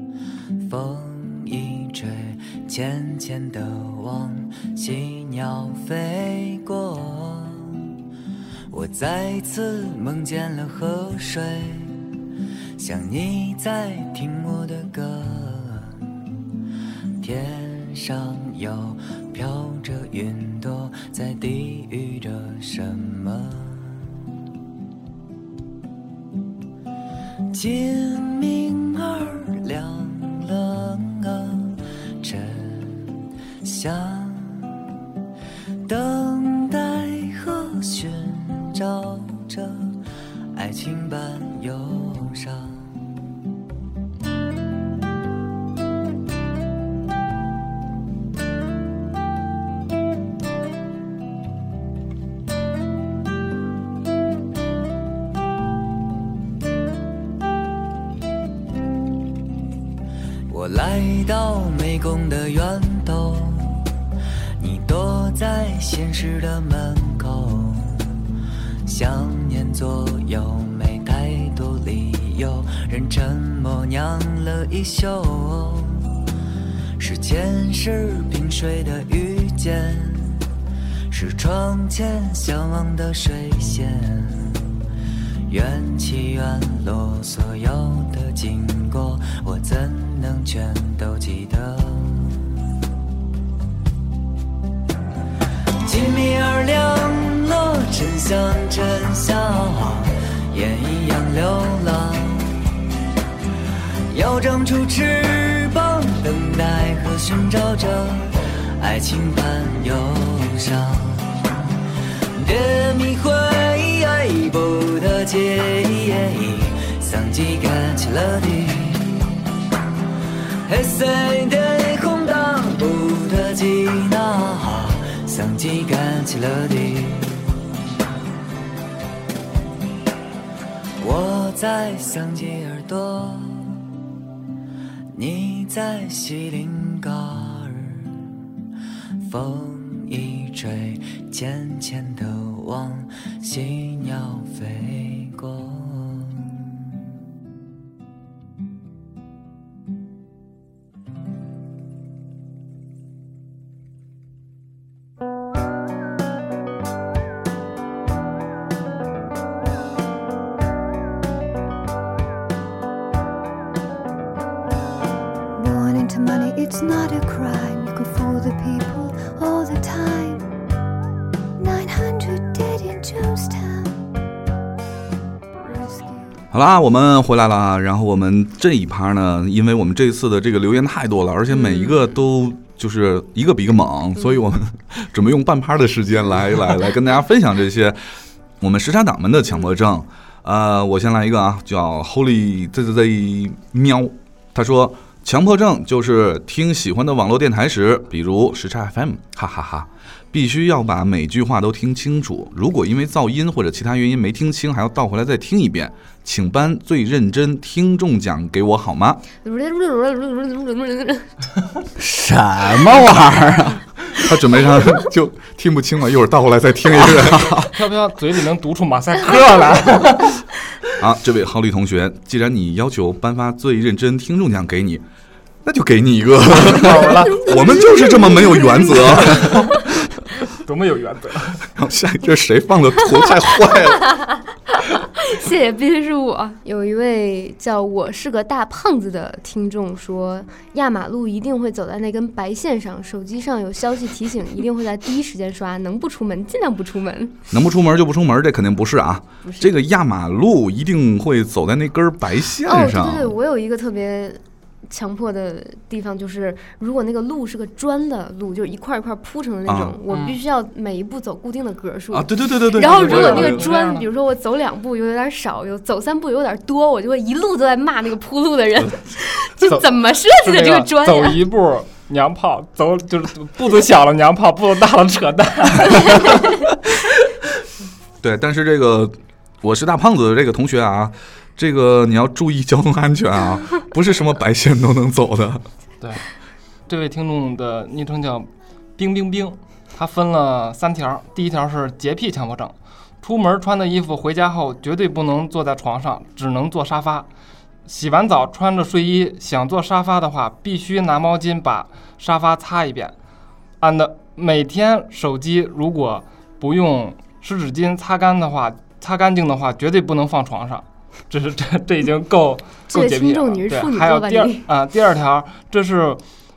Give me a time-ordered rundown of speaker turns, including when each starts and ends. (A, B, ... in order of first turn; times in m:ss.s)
0:00.6-0:07.8 A
0:08.7-0:12.0 A
0:12.8-0:16.0 A
0:17.2-0:24.0 A
0:27.5-0:33.1 A
0:33.6-0:34.7 A
0:35.8-0:40.0 A
0:40.5-0:42.8 A
1:00.5-1:03.9 A
1:04.6-1:08.1 A
1:08.8-1:16.1 A
1:17.0-1:20.4 A
1:21.1-1:24.6 A
1:25.5-1:32.5 A
1:35.8-1:42.6 A
1:44.1-1:51.5 A
1:52.4-1:59.2 A
2:00.6-2:07.5 A
2:11.0-2:13.8 A
2:15.1-2:18.2 A
2:19.2-2:26.7 A
2:45.5-2:50.4 B
2:51.6-2:53.9 B
2:55.6-2:56.3 B
2:56.5-3:08.0 C
3:01.5-3:02.0 D
3:08.6-3:29.2 C
3:29.4-3:31.3 D
3:32.0-3:33.8 E
3:34.1-3:37.6 C
3:36.9-3:37.7 E
3:37.7-3:40.4 F
3:41.0-3:45.0 C
3:45.6-3:49.9 C
3:46.6-3:47.7 F
3:47.4-3:49.5 D
3:48.9-3:49.8 F
3:50.5-3:51.7 F
3:51.8-3:54.1 C
3:54.7-4:07.4 D
4:07.5-4:13.3 C
4:09.4-4:09.7 D
4:12.6-4:31.4 D
4:19.7-4:20.0 C
4:20.1-4:20.4 F
4:22.1-4:23.7 C
4:22.8-4:24.1 F
4:30.4-4:36.6 F
4:38.2-4:45.6 C
4:46.0-4:46.2 F
4:46.9-4:57.3 F
4:57.8-5:03.1 F
5:03.8-5:16.2 F
5:12.9-5:14.6 D